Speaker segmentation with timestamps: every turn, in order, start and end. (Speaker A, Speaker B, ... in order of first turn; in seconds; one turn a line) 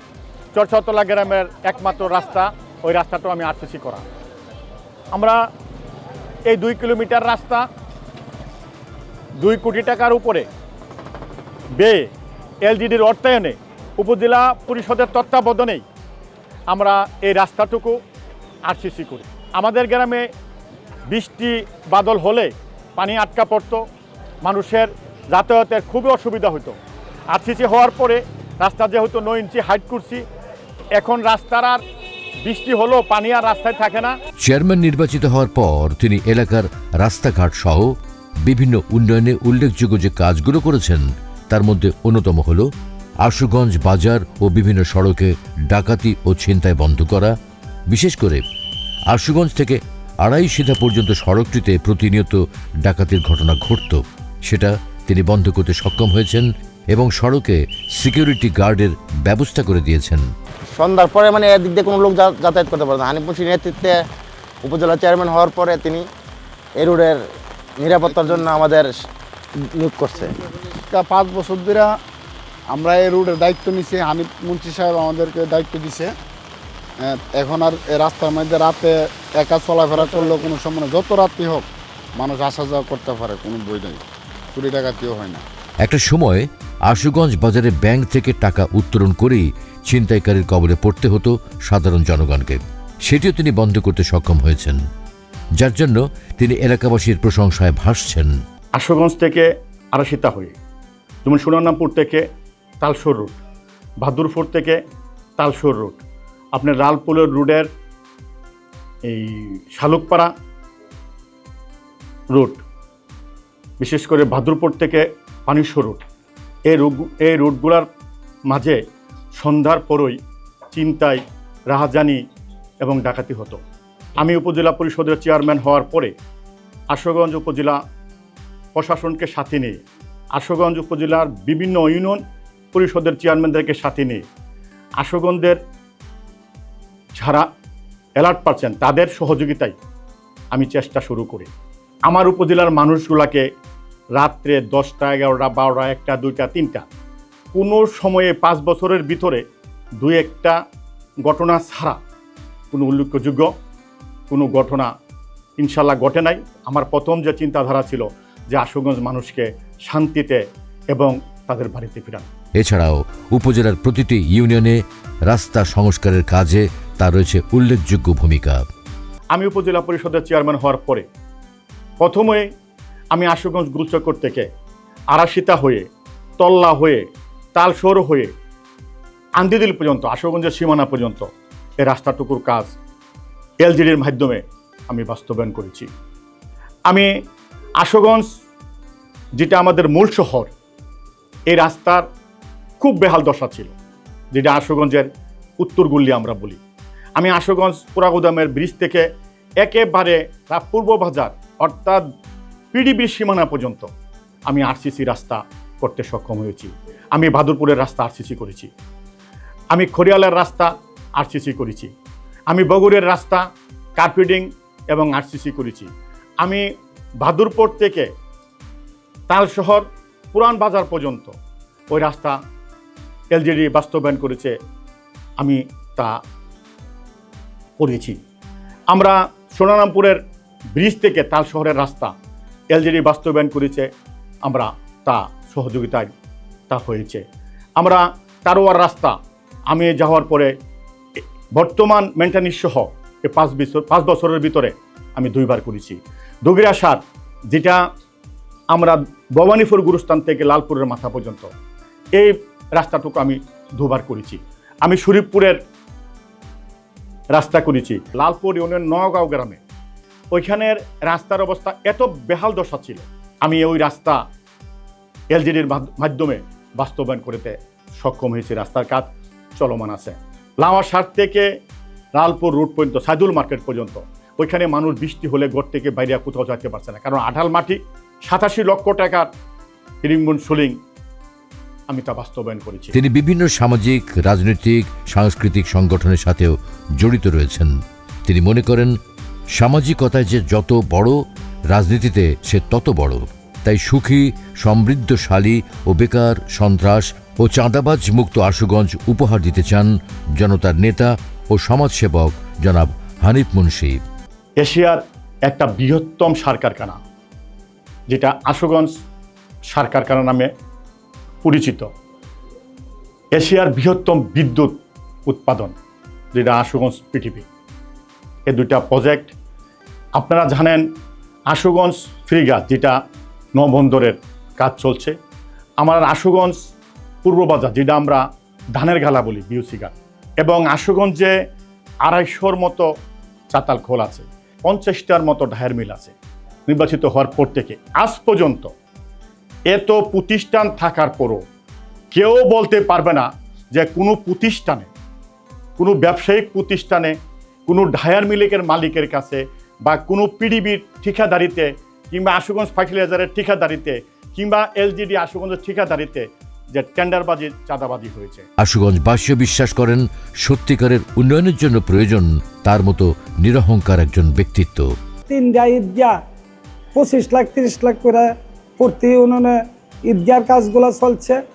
Speaker A: 0.5-4.0
Speaker A: 5.1-5.4
Speaker A: 6.5-7.7
Speaker A: 9.4-10.5
Speaker A: 11.8-12.1
Speaker A: 12.6-15.8
Speaker A: 16.7-18.0
Speaker A: 18.7-20.3
Speaker A: 21.1-23.8
Speaker A: 24.4-26.8
Speaker A: 27.3-30.2
Speaker A: 30.9-31.8
Speaker A: 32.5-34.1
Speaker B: 34.4-37.9
Speaker B: 38.4-42.7
Speaker B: 43.2-47.4
Speaker B: 47.9-48.4
Speaker B: 49.1-60.2
Speaker C: 60.7-64.0
Speaker C: 64.6-66.1
Speaker C: 66.7-69.0
Speaker D: 68.1-68.5
Speaker C: 69.5-70.4
Speaker D: 70.9-71.9
Speaker D: 72.7-76.1
Speaker D: 77.0-84.0
Speaker D: 84.5-85.4
Speaker B: 85.8-94.8
Speaker B: 95.6-98.3
Speaker A: 98.7-100.5
Speaker A: 101.2-102.2
Speaker A: 102.8-103.4
Speaker A: 104.0-104.8
Speaker A: 105.4-106.0
Speaker A: 106.5-107.7
Speaker A: 109.1-110.3
Speaker A: 112.3-112.6
Speaker A: 113.8-116.0
Speaker A: 116.7-117.9
Speaker A: 118.5-118.8
Speaker A: 119.3-120.2
Speaker A: 120.7-122.2
Speaker A: 122.8-123.6
Speaker A: 124.2-126.1
Speaker A: 126.9-127.8
Speaker A: 128.7-129.8
Speaker A: 130.3-132.2
Speaker A: 132.7-134.2
Speaker A: 135.0-135.6
Speaker A: 137.2-137.4
Speaker A: 138.2-139.8
Speaker A: 140.5-141.5
Speaker A: 142.1-143.4
Speaker A: 144.2-146.8
Speaker A: 147.5-149.4
Speaker A: 150.0-150.6
Speaker A: 151.2-152.0
Speaker A: 152.7-153.5
Speaker A: 154.3-154.9
Speaker A: 155.6-162.3
Speaker B: 162.6-168.6
Speaker A: 169.3-171.1
Speaker A: 172.0-172.5
Speaker A: 173.1-174.4
Speaker A: 175.1-175.9
Speaker A: 176.4-178.3
Speaker A: 179.4-181.3
Speaker A: 181.8-182.7
Speaker A: 183.6-185.9
Speaker A: 187.8-188.3
Speaker A: 189.4-190.5
Speaker A: 191.5-192.1
Speaker A: 192.8-193.7
Speaker A: 194.3-195.1
Speaker A: 195.6-196.6
Speaker A: 197.2-199.1
Speaker A: 199.6-202.0
Speaker A: 202.7-203.9
Speaker A: 204.5-208.7
Speaker A: 209.7-211.9
Speaker A: 212.5-213.4
Speaker A: 214.0-215.9
Speaker A: 217.2-218.1
Speaker A: 219.3-221.3
Speaker A: 221.9-222.4
Speaker A: 223.3-224.5
Speaker A: 225.4-226.2
Speaker A: 227.8-228.2
Speaker A: 228.9-230.2
Speaker A: 230.8-232.1
Speaker A: 232.7-233.9
Speaker A: 234.4-236.1
Speaker A: 236.7-237.2
Speaker A: 237.8-239.1
Speaker A: 239.7-240.5
Speaker A: 241.5-247.8
Speaker A: 248.7-251.5
Speaker A: 252.1-255.6
Speaker A: 257.3-259.6
Speaker A: 260.3-264.2
Speaker A: 265.3-271.5
Speaker A: 272.1-279.3
Speaker A: 280.0-280.8
Speaker A: 281.9-282.9
Speaker B: 282.9-287.7
Speaker B: 288.2-288.9
Speaker B: 289.5-291.2
Speaker B: 291.7-304.0
Speaker A: 304.6-307.0
Speaker A: 308.1-308.9
Speaker A: 309.7-310.5
Speaker A: 311.4-311.9
Speaker A: 313.3-315.7
Speaker A: 316.3-317.4
Speaker A: 318.5-319.3
Speaker A: 320.1-320.9
Speaker A: 321.5-323.0
Speaker A: 323.6-325.1
Speaker A: 325.8-326.6
Speaker A: 327.2-328.2
Speaker A: 328.8-331.3
Speaker A: 332.1-332.9
Speaker A: 333.5-336.1
Speaker A: 336.7-338.7
Speaker A: 339.7-341.4
Speaker A: 342.1-344.9
Speaker A: 345.8-347.1
Speaker A: 347.7-358.4
Speaker B: 358.6-364.9
Speaker E: 365.3-366.2
Speaker E: 366.9-371.4